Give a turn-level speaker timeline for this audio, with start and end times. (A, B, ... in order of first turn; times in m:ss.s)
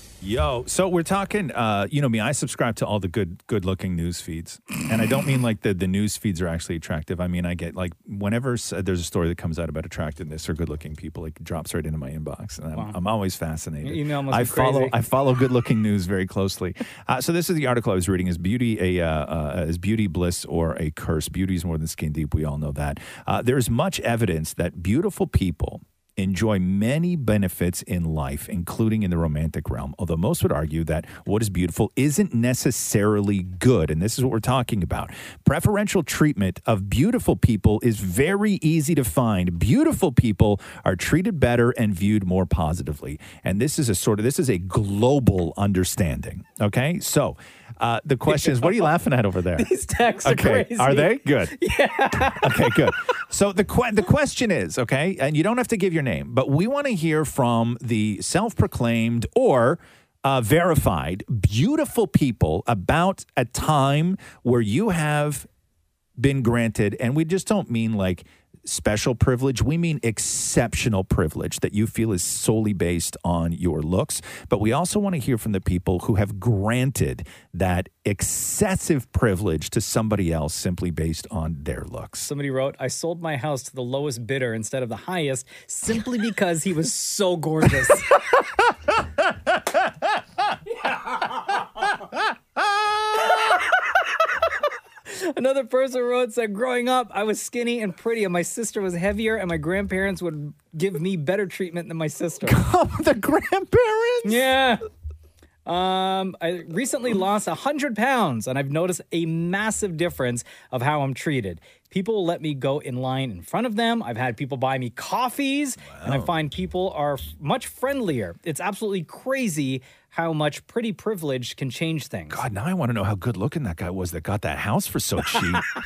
0:00.2-0:49.7 A
0:13.8-0:15.0 B
0:48.3-0:48.9 B
0:49.6-0:52.8 B
0:50.2-0:51.6 A
0:52.4-1:05.4 A
1:06.2-1:22.3 A
1:22.2-1:28.1 B
1:30.9-1:31.6 B
1:35.1-1:42.6 B
1:42.4-1:44.5 A
1:44.2-1:44.8 B
1:45.6-2:02.4 B
1:55.9-1:56.3 A
2:02.3-2:05.6 A